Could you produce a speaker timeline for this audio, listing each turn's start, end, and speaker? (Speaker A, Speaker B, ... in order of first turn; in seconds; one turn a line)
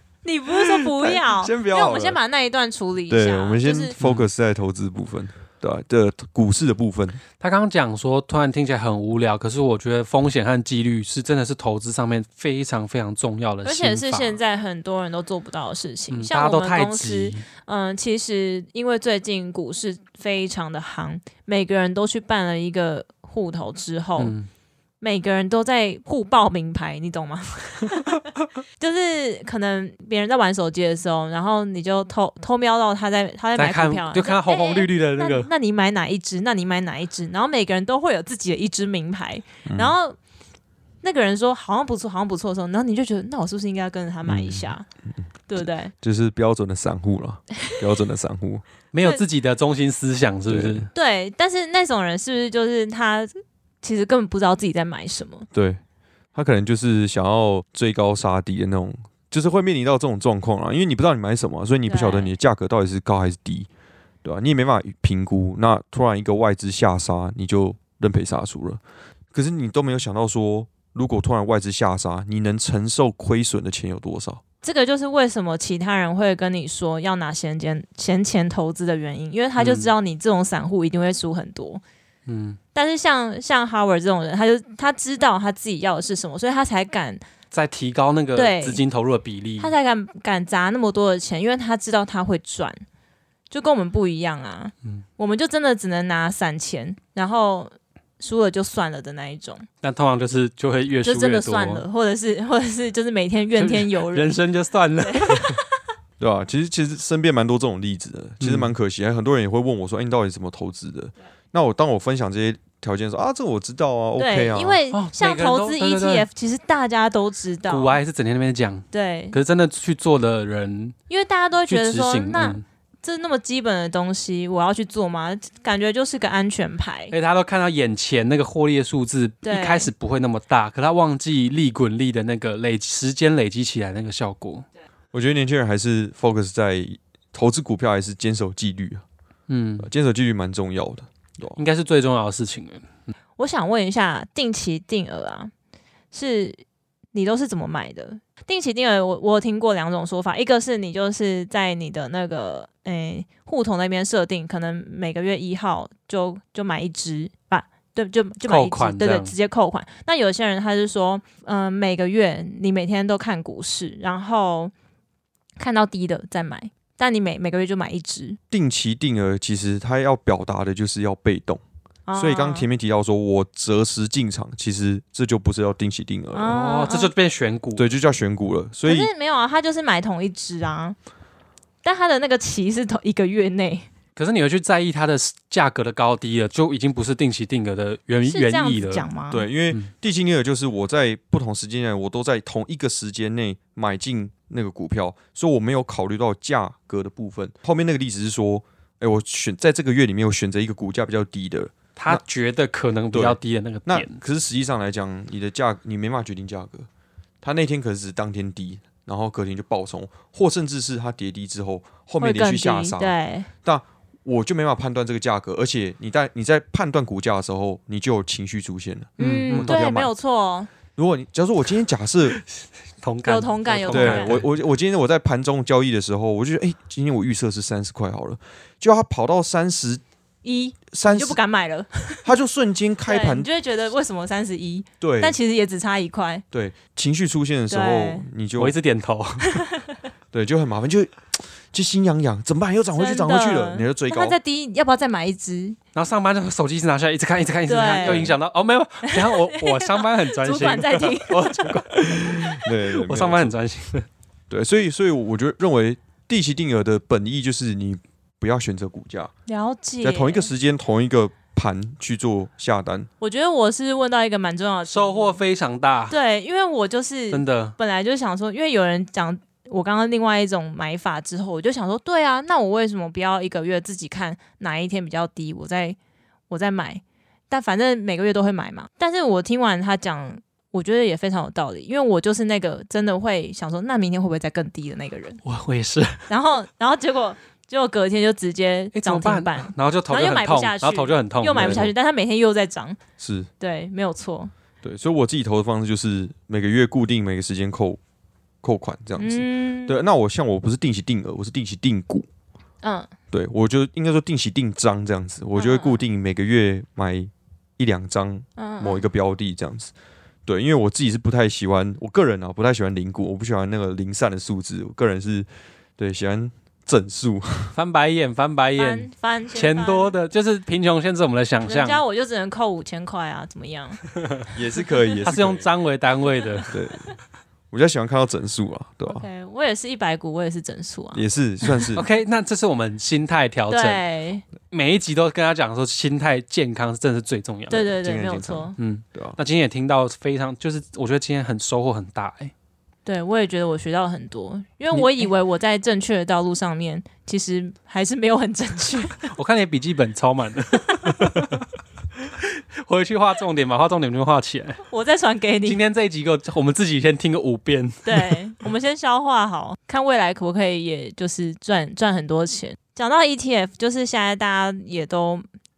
Speaker A: 0.2-4.0
Speaker B: 1.0-2.2
Speaker B: 3.1-7.2
Speaker C: 4.0-4.3
Speaker C: 7.4-14.4
Speaker A: 13.6-24.3
Speaker C: 16.1-17.4
Speaker C: 24.2-24.5
Speaker A: 25.0-28.2
Speaker A: 28.8-40.2
Speaker C: 33.5-35.5
Speaker B: 39.6-40.0
Speaker A: 41.0-44.9
Speaker B: 44.2-44.7
Speaker A: 45.5-45.9
Speaker B: 45.6-48.6
Speaker C: 48.9-50.9
Speaker B: 50.5-50.9
Speaker A: 50.9-53.3
Speaker A: 53.8-55.5
Speaker B: 55.5-55.8
Speaker B: 56.3-63.7
Speaker A: 61.9-62.3
Speaker B: 64.2-68.8
Speaker B: 69.3-74.4
Speaker A: 74.6-81.8
Speaker C: 79.6-79.9
Speaker C: 82.3-82.6
Speaker A: 82.7-87.2
Speaker C: 87.5-89.7
Speaker A: 88.3-88.8
Speaker A: 89.6-92.8
Speaker A: 93.5-99.7
Speaker C: 99.8-101.8
Speaker A: 101.0-104.4
Speaker C: 103.6-105.6
Speaker A: 105.0-105.7
Speaker B: 106.2-114.8
Speaker C: 108.4-108.7
Speaker A: 114.2-118.0
Speaker C: 114.9-116.3
Speaker C: 117.7-121.0
Speaker A: 118.9-119.4
Speaker A: 121.1-127.1
Speaker C: 121.7-122.6
Speaker C: 127.1-134.6
Speaker A: 129.4-129.9
Speaker B: 135.1-139.0
Speaker C: 139.5-139.9
Speaker B: 139.8-141.6
Speaker C: 141.6-143.1
Speaker A: 143.4-145.5
Speaker A: 146.1-146.6
Speaker A: 147.1-164.7
Speaker C: 158.4-159.3
Speaker A: 165.6-168.4
Speaker B: 168.5-171.6
Speaker A: 172.1-172.7
Speaker B: 172.1-176.6
Speaker A: 176.3-177.1
Speaker C: 176.4-177.8
Speaker B: 177.8-179.1
Speaker A: 178.8-180.9
Speaker A: 181.8-183.8
Speaker C: 184.2-189.1
Speaker A: 188.2-189.5
Speaker B: 189.3-202.2
Speaker C: 201.9-204.2
Speaker B: 203.1-206.9
Speaker B: 207.4-220.1
Speaker A: 212.2-213.5
Speaker A: 219.2-220.7
Speaker C: 219.2-219.8
Speaker B: 220.9-222.4
Speaker C: 223.0-224.5
Speaker A: 223.2-224.4
Speaker B: 223.9-230.0
Speaker A: 230.4-232.2
Speaker B: 230.9-231.4
Speaker B: 232.2-233.5
Speaker A: 233.1-236.4
Speaker B: 235.0-235.4
Speaker B: 236.5-238.8
Speaker A: 237.7-238.2
Speaker C: 238.6-239.6
Speaker A: 239.4-239.9
Speaker B: 240.3-244.4
Speaker A: 243.0-245.8
Speaker C: 245.9-254.1
Speaker A: 247.7-248.3
Speaker B: 248.0-248.3
Speaker A: 249.1-251.8
Speaker B: 252.2-253.5
Speaker B: 254.5-259.3
Speaker A: 259.5-260.5
Speaker B: 260.0-263.1
Speaker A: 263.2-265.4
Speaker C: 264.9-266.1
Speaker A: 266.1-276.0
Speaker C: 267.3-267.8
Speaker A: 276.5-285.4
Speaker C: 285.4-286.3
Speaker A: 286.3-293.0
Speaker C: 288.9-291.9
Speaker B: 291.5-291.9
Speaker B: 293.2-293.5
Speaker A: 293.6-294.5
Speaker B: 294.8-298.0
Speaker B: 298.6-302.2
Speaker A: 299.2-300.0
Speaker A: 302.8-303.1
Speaker B: 303.3-309.9
Speaker A: 305.5-306.0
Speaker A: 308.6-309.0
Speaker B: 310.4-317.7
Speaker C: 317.7-322.0
Speaker A: 318.8-320.1
Speaker A: 321.6-324.0
Speaker B: 324.5-325.6
Speaker C: 325.2-326.7
Speaker B: 326.7-327.1
Speaker B: 327.7-329.2
Speaker A: 329.1-331.2
Speaker B: 331.1-332.1
Speaker C: 331.9-334.0
Speaker A: 333.7-334.4
Speaker C: 334.7-337.9
Speaker A: 337.7-338.7
Speaker B: 337.9-339.4
Speaker C: 338.8-342.5
Speaker A: 343.0-349.2
Speaker C: 344.9-345.3
Speaker C: 349.2-351.6
Speaker C: 352.2-354.8
Speaker A: 354.9-355.8
Speaker C: 355.6-358.4
Speaker A: 358.0-365.4